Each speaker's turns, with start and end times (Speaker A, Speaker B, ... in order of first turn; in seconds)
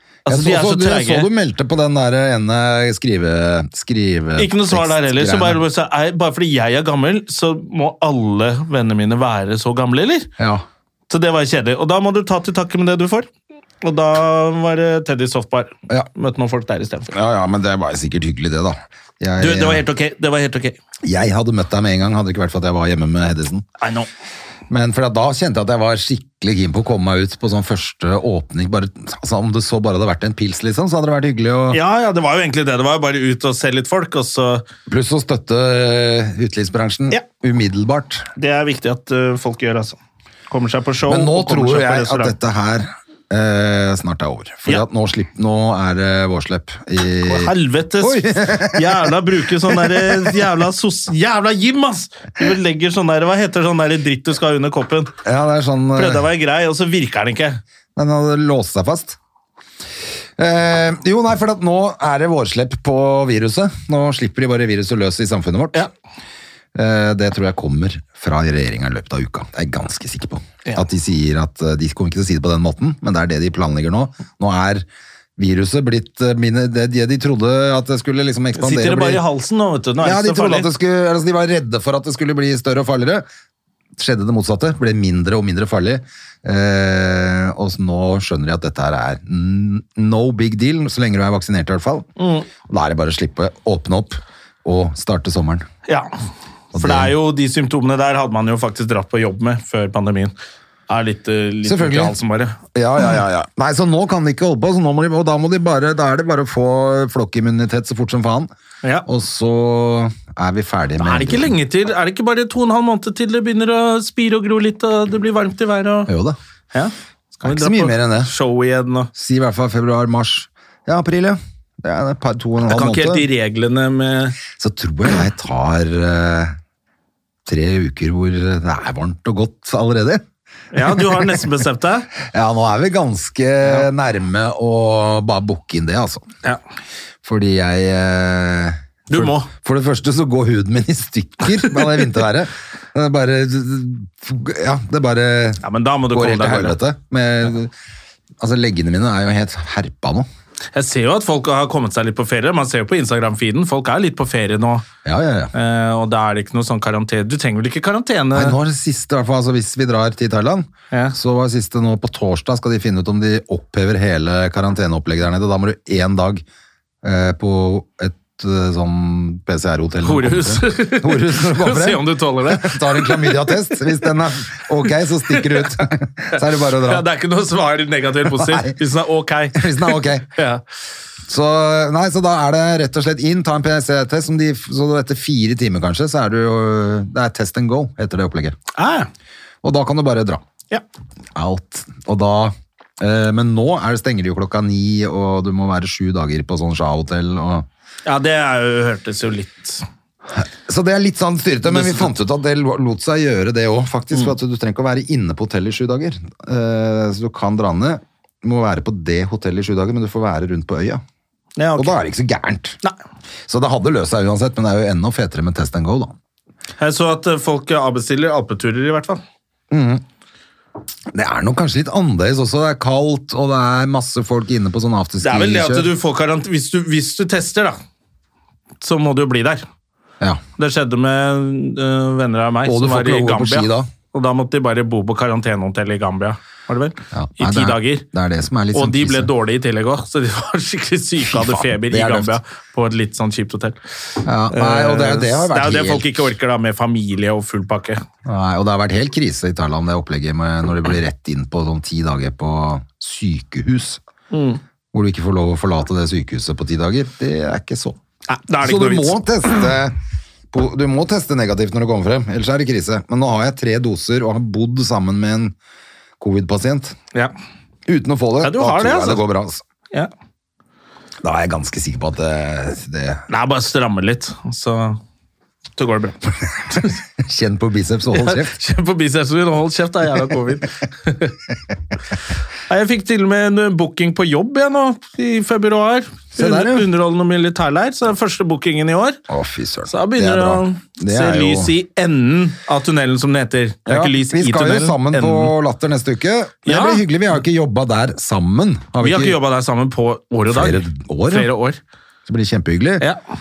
Speaker A: 0.2-1.3, 4.4-10.3, 11.1-13.3, 13.8-17.1, 19.4-20.8, 23.8-24.1, 31.7-34.6, 38.4-40.0, 40.5-42.3, 47.2-55.1, 55.9-57.6, 78.5-80.7, 92.2-92.5, 96.7-100.3, 100.9-102.6, 111.0-116.1, 116.7-119.1, 122.7-124.4, 130.7-132.1, 139.1-139.5, 145.6-146.8, 150.7-154.8, 155.5-158.6, 170.0-173.8, 175.3-180.6, 188.7-189.1, 198.1-199.8, 201.7-202.1, 211.6-211.9, 216.8-219.2, 225.2-227.8, 228.8-229.6, 230.6-238.0, 238.7-243.8, 244.5-248.0, 254.3-254.6, 258.3-259.2, 268.4-269.2, 273.3-275.0, 275.8-277.0, 278.1-281.4, 282.7-289.2, 289.9-295.5, 296.6-297.0, 299.0-301.8
Speaker B: 0.2-5.6, 10.4-10.6, 17.1-19.8, 21.0-23.6, 24.7-31.8, 34.9-38.3, 41.0-49.1, 49.6-50.4, 55.2-56.2, 58.0-59.2, 60.4-65.9, 66.7-74.8, 75.4-79.2, 80.0-83.2, 84.0-92.1, 92.6-95.7, 96.7-97.1, 101.6-102.2, 102.7-108.5, 109.0-111.5, 116.1-116.4, 117.4-118.3, 119.1-123.3, 124.5-126.6, 127.5-130.2, 130.8-131.2, 132.2-136.3, 137.2-147.7, 148.4-150.3, 155.0-155.5, 158.3-166.4, 167.0-177.0, 178.3-178.8, 179.5-180.3, 181.3-188.6, 189.6-190.4, 191.3-197.7, 200.3-211.0, 211.8-212.8, 213.5-216.2, 219.7-220.0, 221.1-225.9, 232.6-233.9, 237.1-239.3, 241.2-242.3, 244.2-246.2, 248.2-254.0, 254.9-258.0, 258.6-259.9, 260.5-265.5, 266.2-266.9, 267.9-269.6, 271.2-273.2, 277.2-278.5, 286.3-286.9, 289.3-291.7, 293.9-299.4, 300.5-301.5, 302.2-303.1